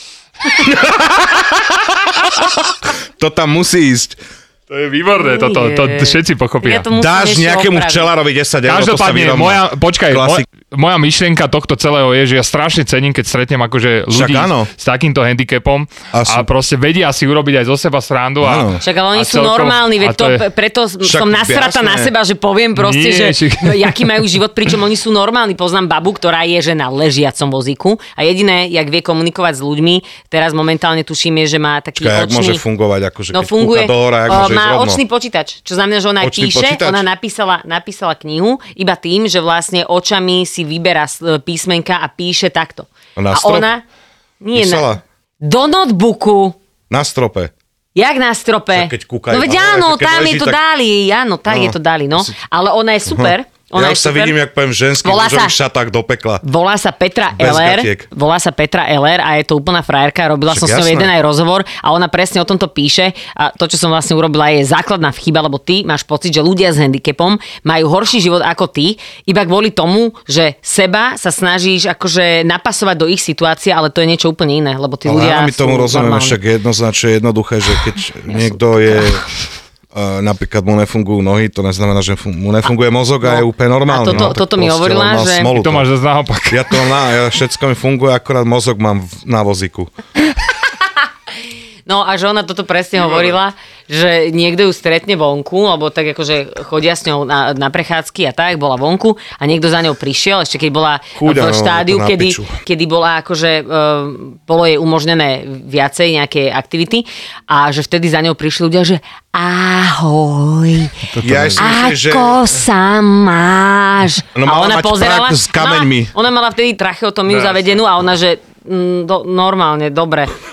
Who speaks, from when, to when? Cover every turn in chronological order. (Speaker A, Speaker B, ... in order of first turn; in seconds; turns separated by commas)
Speaker A: 0.5-4.2, Speaker B: 4.7-6.8, Speaker C: 5.2-8.1, Speaker A: 6.9-10.4, Speaker B: 8.7-20.4, Speaker A: 14.1-14.7, Speaker A: 16.1-16.5, Speaker A: 18.4-18.8, Speaker C: 18.8-32.6, Speaker A: 21.0-22.1, Speaker B: 22.8-24.2, Speaker A: 32.0-35.0, Speaker C: 33.3-43.8, Speaker A: 36.2-37.0, Speaker A: 43.2-43.7, Speaker C: 44.4-46.6, Speaker A: 44.5-45.0, Speaker A: 46.9-47.5, Speaker C: 48.0-54.4, Speaker A: 48.7-50.6, Speaker A: 51.5-52.4, Speaker A: 53.1-56.4, Speaker C: 55.0-55.6, Speaker C: 56.4-76.4, Speaker A: 57.4-58.1, Speaker A: 60.5-61.1, Speaker A: 75.0-79.3, Speaker C: 78.3-79.1, Speaker A: 79.9-85.9, Speaker C: 83.2-85.5, Speaker B: 85.5-86.8, Speaker A: 86.5-89.9, Speaker C: 91.9-111.0, Speaker B: 93.0-93.3, Speaker A: 101.2-102.6, Speaker B: 111.1-111.6, Speaker A: 111.2-112.5, Speaker C: 111.6-120.3, Speaker A: 114.3-116.1, Speaker B: 117.3-117.6